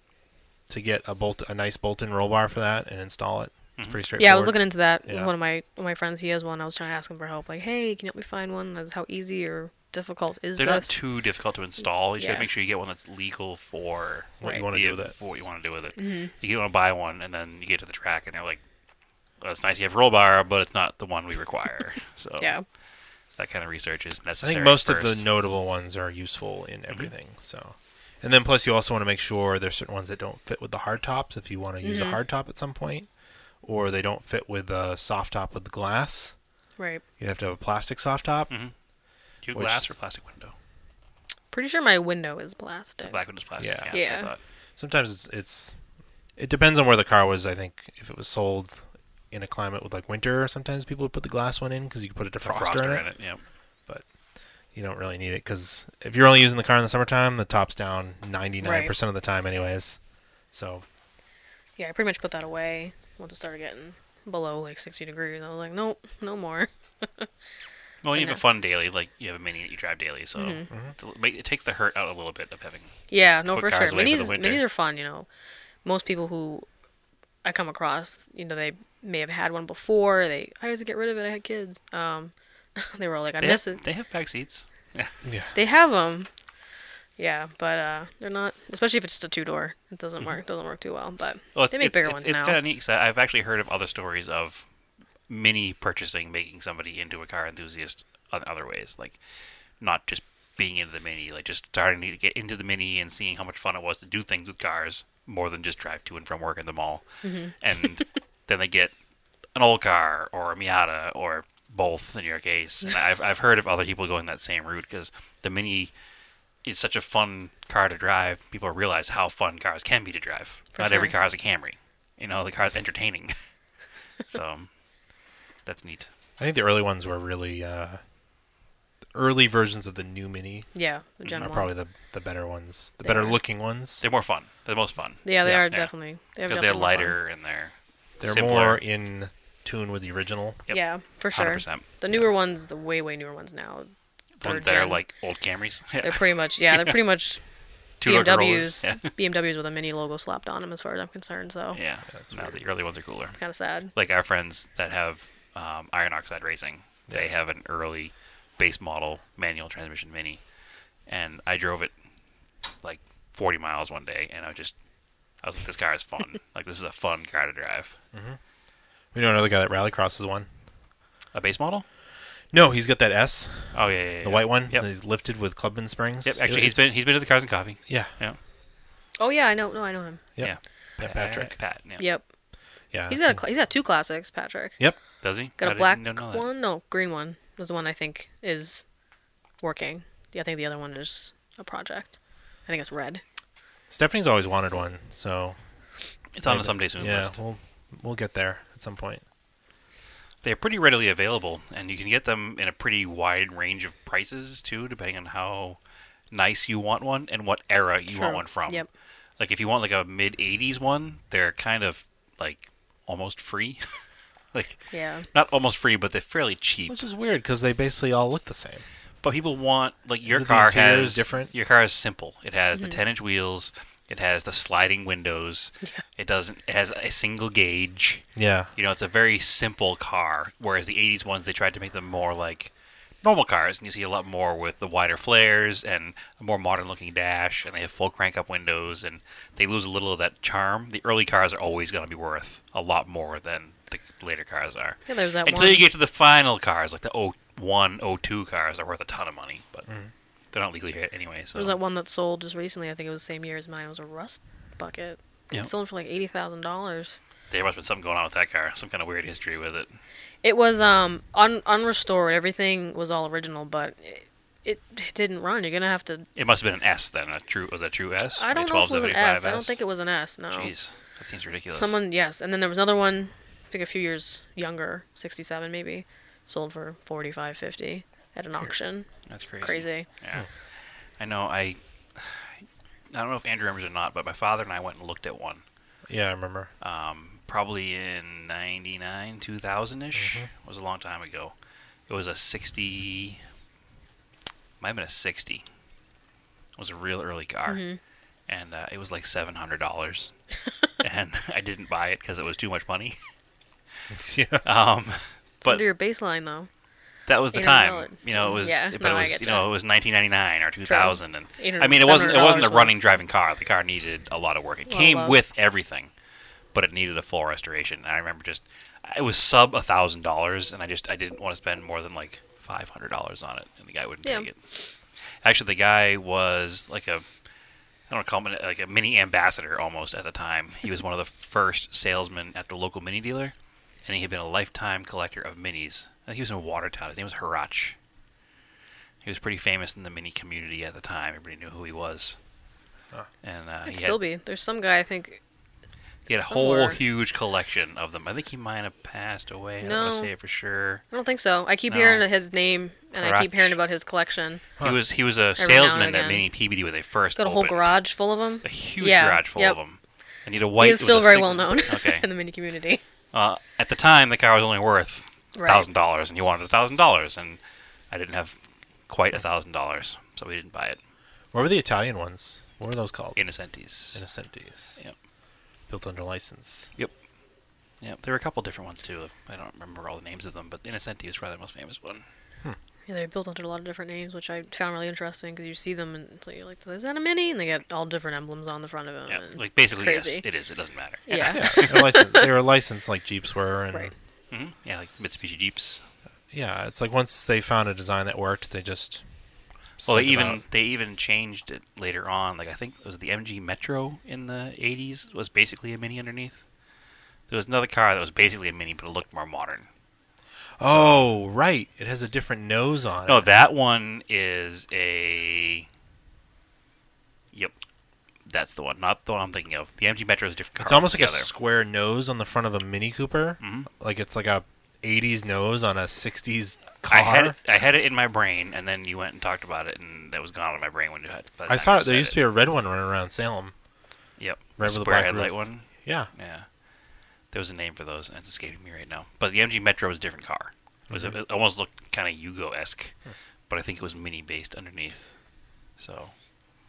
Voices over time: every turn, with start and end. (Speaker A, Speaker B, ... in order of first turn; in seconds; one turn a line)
Speaker A: 0.7-5.3
Speaker B: 3.8-4.0
Speaker C: 4.2-10.9
Speaker B: 10.6-18.6
Speaker C: 12.2-12.5
Speaker A: 14.4-15.1
Speaker C: 16.0-16.3
Speaker B: 19.4-22.6
Speaker C: 22.4-22.6
Speaker B: 23.4-25.2
Speaker A: 24.4-33.1
Speaker C: 31.8-32.2
Speaker A: 33.6-36.3
Speaker C: 36.8-37.0
Speaker A: 37.2-38.5
Speaker B: 39.4-40.5
Speaker A: 39.5-39.8
Speaker C: 41.5-43.2
Speaker B: 43.0-44.4
Speaker A: 43.6-44.0
Speaker C: 43.9-44.3
Speaker A: 44.8-45.8
Speaker A: 46.4-53.0
Speaker B: 52.4-53.4
Speaker A: 54.7-60.0
Speaker C: 58.6-58.9
Speaker A: 60.5-60.8
Speaker C: 61.8-67.3
Speaker B: 68.0-72.9
Speaker C: 68.1-68.4
Speaker C: 70.3-70.7
Speaker C: 73.1-75.3
Speaker B: 73.5-74.6
Speaker C: 75.8-76.7
Speaker C: 77.4-83.8
Speaker B: 83.4-85.1
Speaker A: 85.2-85.5
Speaker C: 85.5-86.3
Speaker C: 87.2-92.6
Speaker B: 91.5-94.7
Speaker B: 95.3-99.2
Speaker B: 99.8-108.9
Speaker C: 107.2-107.5
Speaker B: 109.5-115.9
Speaker B: 116.6-123.3
Speaker C: 120.8-121.1
Speaker B: 124.3-124.7
Speaker B: 125.6-126.1
Speaker A: 126.4-128.0
Speaker A: 129.1-130.7
Speaker C: 130.7-131.7
Speaker A: 131.4-134.0
Speaker C: 133.0-133.3
Speaker B: 134.0-135.9
Speaker C: 135.2-137.2
Speaker B: 136.4-138.8
Speaker A: 138.2-140.6
Speaker C: 140.7-145.0
Speaker B: 141.3-142.2
Speaker B: 144.4-147.0
Speaker C: 146.0-147.4
Speaker B: 148.0-149.1
Speaker C: 148.0-151.8
Speaker B: 151.7-153.4
Speaker A: 152.1-152.6
Speaker C: 153.4-153.9
Speaker B: 153.9-160.4
Speaker B: 161.1-161.9
Speaker B: 162.8-164.7
Speaker B: 165.4-167.9
Speaker A: 168.1-168.4
Speaker A: 169.1-170.5
Speaker B: 171.3-171.8
Speaker A: 172.5-176.8
Speaker B: 173.7-174.8
Speaker B: 176.2-178.4
Speaker C: 179.2-180.2
Speaker A: 180.3-181.6
Speaker B: 180.4-182.1
Speaker C: 182.0-182.2
Speaker A: 182.9-183.4
Speaker C: 183.1-184.8
Speaker B: 185.2-186.5
Speaker C: 185.6-188.8
Speaker C: 189.6-193.2
Speaker A: 193.9-195.6
Speaker B: 196.3-197.4
Speaker A: 196.4-199.2
Speaker B: 200.4-205.8
Speaker B: 206.3-208.8
Speaker C: 208.1-208.9
Speaker B: 209.4-213.9
Speaker B: 214.5-217.0
Speaker C: 214.9-215.3
Speaker A: 216.9-218.8
Speaker B: 219.2-228.2
Speaker A: 220.2-221.5
Speaker A: 228.3-228.7
Speaker B: 228.8-232.7
Speaker B: 233.2-249.8
Speaker C: 245.1-245.8
Speaker A: 249.8-250.1
Speaker B: 250.5-251.8
Speaker C: 251.5-257.2
Speaker B: 257.5-259.9
Speaker C: 260.4-266.2
Speaker B: 266.4-269.8
Speaker C: 268.4-270.7
Speaker B: 270.5-272.0
Speaker C: 271.7-279.1
Speaker B: 279.2-280.5
Speaker C: 279.6-280.1
Speaker B: 281.2-285.6
Speaker A: 286.1-286.7
Speaker B: 286.8-291.5
Speaker A: 290.1-290.5
Speaker B: 292.1-293.4
Speaker B: 294.8-295.6
Speaker B: 296.8-297.8
Speaker C: 297.7-298.0
Speaker B: 298.5-300.3
Speaker B: 301.0-303.2
Speaker A: 304.1-304.6
Speaker B: 304.6-305.8
Speaker C: 305.6-306.7
Speaker B: 307.3-316.1
Speaker C: 307.5-309.7
Speaker C: 310.9-313.0
Speaker C: 314.9-315.4
Speaker B: 316.7-324.6
Speaker C: 324.2-324.5
Speaker B: 325.4-327.2
Speaker B: 328.1-333.5
Speaker B: 334.0-337.9
Speaker B: 339.2-342.4
Speaker B: 343.4-344.2
Speaker C: 343.9-345.4
Speaker B: 346.3-351.0
Speaker C: 346.3-347.0
Speaker C: 349.8-350.3
Speaker C: 351.1-354.6
Speaker B: 351.9-352.2
Speaker B: 353.2-353.8
Speaker B: 354.8-357.9
Speaker C: 355.6-356.4
Speaker C: 357.4-359.8
Speaker B: 358.6-362.2
Speaker C: 360.8-363.0
Speaker B: 363.3-367.6
Speaker C: 365.5-365.8
Speaker B: 368.1-368.6
Speaker B: 369.1-371.0
Speaker A: 371.5-373.4
Speaker B: 373.4-374.2
Speaker A: 374.1-375.0
Speaker A: 375.9-376.9
Speaker B: 378.0-382.2
Speaker C: 383.1-390.4
Speaker B: 389.3-392.2
Speaker C: 391.3-392.5
Speaker A: 391.5-394.1
Speaker B: 394.5-396.1
Speaker A: 396.5-399.2
Speaker A: 400.0-400.6
Speaker B: 400.0-406.6
Speaker B: 407.5-409.9
Speaker A: 410.8-413.4
Speaker B: 410.8-411.2
Speaker B: 413.2-415.9
Speaker B: 418.4-421.5
Speaker A: 420.8-427.6
Speaker B: 423.6-423.9
Speaker B: 427.1-432.4
Speaker A: 431.7-433.7
Speaker B: 434.4-436.7
Speaker A: 434.8-436.3
Speaker B: 437.5-443.1
Speaker A: 441.1-441.3
Speaker B: 443.7-445.3
Speaker B: 446.0-446.3